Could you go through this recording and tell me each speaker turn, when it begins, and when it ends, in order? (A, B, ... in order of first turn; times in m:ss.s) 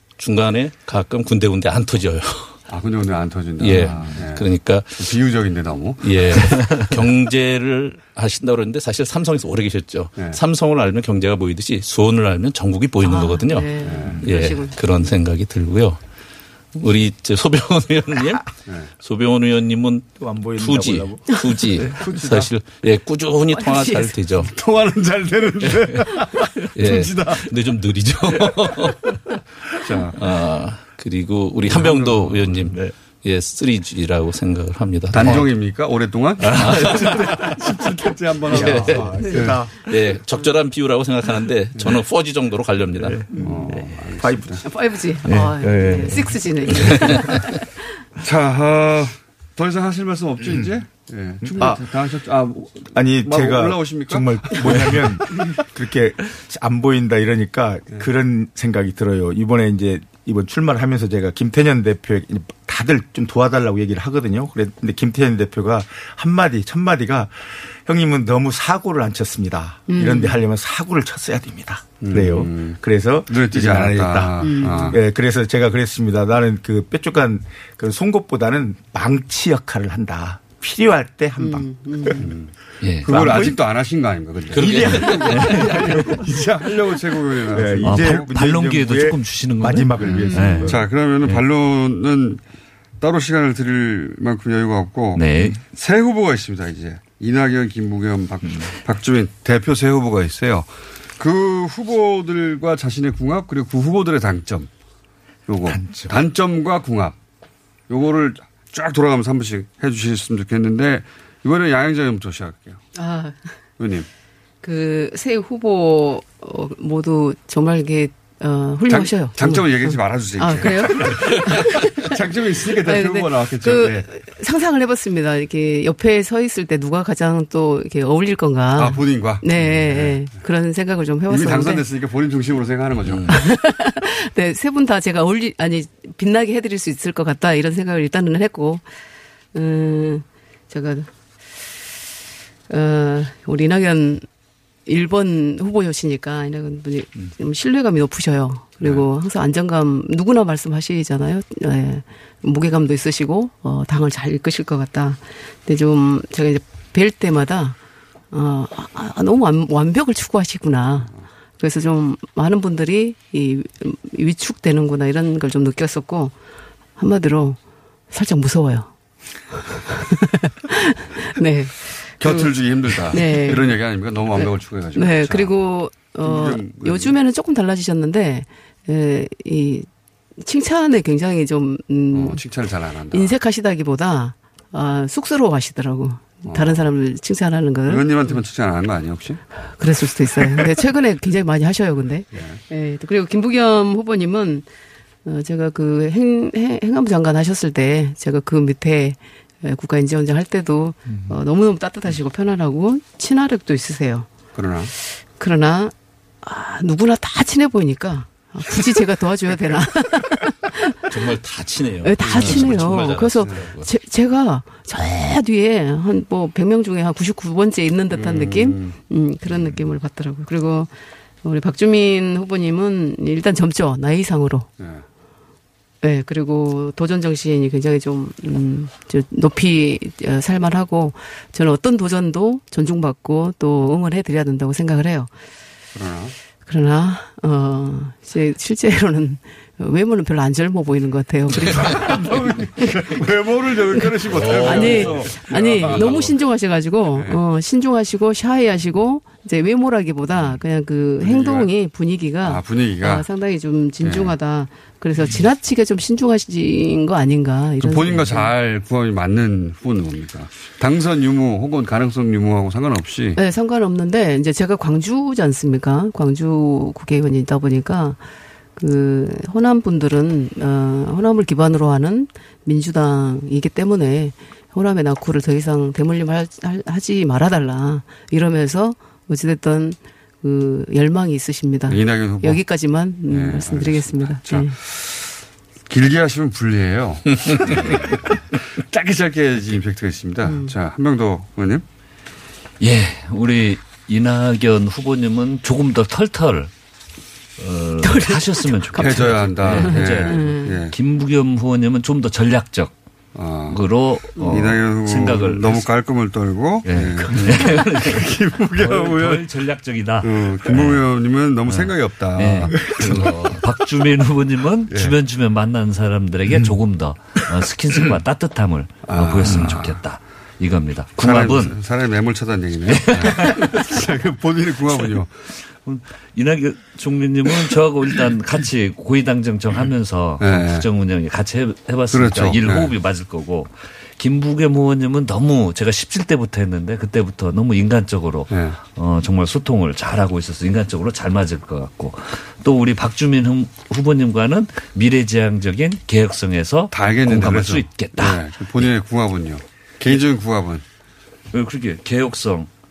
0:00.2-0:02.6 A
0:02.7-0:04.4 B
0:03.6-0:05.1 A
0:05.0-0:06.1 B
0:06.0-0:16.0 A
0:06.5-0:06.9 C
0:13.0-0:15.1 D
0:13.8-0:14.2 B
0:16.7-0:24.5 A
0:20.2-0:21.3 E
0:21.9-0:22.5 B
0:23.5-0:24.2 D
0:24.5-0:27.5 B
0:26.8-0:29.0 A
0:29.8-0:30.2 B
0:30.1-0:35.5 A
0:31.7-0:32.7 B
0:35.1-0:39.6 B
0:36.5-0:37.9 C
0:36.6-0:37.0 A
0:38.5-0:39.7 E
0:38.5-0:39.3 A
0:39.2-0:39.5 D
0:39.8-0:43.2 A
0:43.0-0:44.0 C
0:43.3-0:44.6 B
0:44.2-0:44.6 E
0:44.6-0:47.7 D
0:45.2-0:47.3 C
0:48.2-0:55.0 B
0:51.5-0:51.8 E
0:52.9-1:22.3 E
1:09.9-1:10.4 D
1:12.0-1:15.0 B
1:14.4-1:15.0 D
1:21.4-1:22.3 D
1:22.2-1:22.5 B
1:22.8-1:23.1 C
1:23.1-1:28.3 B
1:23.1-1:23.6 E
1:24.5-1:25.2 A
1:24.5-1:26.1 E
1:25.2-1:26.1 C
1:27.5-1:30.9 E
1:27.8-1:31.4 C
1:30.0-1:32.4 B
1:30.2-1:30.7 D
1:33.0-1:44.7 B
1:35.2-1:35.6 C
1:45.5-1:47.2 B
1:45.6-1:46.2 E
1:47.9-1:52.8 B
1:52.9-1:53.4 D
1:53.8-1:54.1 B
1:54.6-2:02.2 D
1:58.9-2:04.0 B
2:02.7-2:11.8 D
2:08.8-2:10.2 B
2:11.3-2:13.3 B
2:13.3-2:18.8 D
2:19.5-2:21.1 D
2:22.7-2:24.2 D
2:24.8-2:37.8 D
2:28.8-2:29.1 B
2:38.3-2:46.3 D
2:47.0-2:47.6 D
2:48.1-2:48.9 D
2:49.6-2:53.8 D
2:52.2-2:55.6 B
2:54.3-2:59.9 D
2:56.2-2:57.2 B
3:00.4-3:02.4 D
3:02.1-3:03.3 B
3:03.1-3:08.4 D
3:06.4-3:06.9 B
3:07.8-3:09.4 B
3:09.8-3:14.7 D
3:10.4-3:10.7 B
3:12.3-3:12.6 B
3:15.2-3:24.3 D
3:24.5-3:24.9 B
3:25.4-3:31.0 D
3:31.1-3:33.9 A
3:32.0-3:40.9 D
3:32.2-3:32.7 B
3:33.4-3:33.7 B
3:38.1-3:39.0 B
3:39.5-3:39.8 B
3:41.4-3:44.7 D
3:44.8-3:45.0 B
3:46.0-3:55.3 D
3:55.9-3:56.3 B
3:56.7-4:03.1 D
4:01.8-4:06.3 B
4:04.0-4:18.5 D
4:04.3-4:06.3 A
4:07.1-4:07.4 B
4:11.2-4:11.7 B
4:12.4-4:13.3 B
4:14.0-4:14.4 B
4:17.8-4:23.4 B
4:23.4-4:28.2 D
4:28.8-4:44.7 D
4:41.9-4:42.6 B
4:43.2-4:45.2 B
4:45.9-4:51.8 B
4:47.5-4:47.8 A
4:50.4-4:50.7 D
4:52.8-4:56.7 C
4:57.6-5:02.9 C
4:58.0-5:00.8 D
4:59.0-5:00.9 B
5:03.3-5:03.8 B
5:03.7-5:05.9 C
5:04.4-5:04.6 D
5:04.4-5:09.4 B
5:06.8-5:11.0 C
5:10.2-5:12.9 B
5:11.7-5:21.8 C
5:13.1-5:13.5 A
5:19.0-5:20.0 B
5:21.2-5:25.3 B
5:22.9-5:23.9 C
5:25.8-5:48.4 C
5:30.4-5:30.8 B
5:32.1-5:32.9 B
5:38.5-5:38.8 B
5:46.9-5:50.8 B
5:51.5-5:52.7 C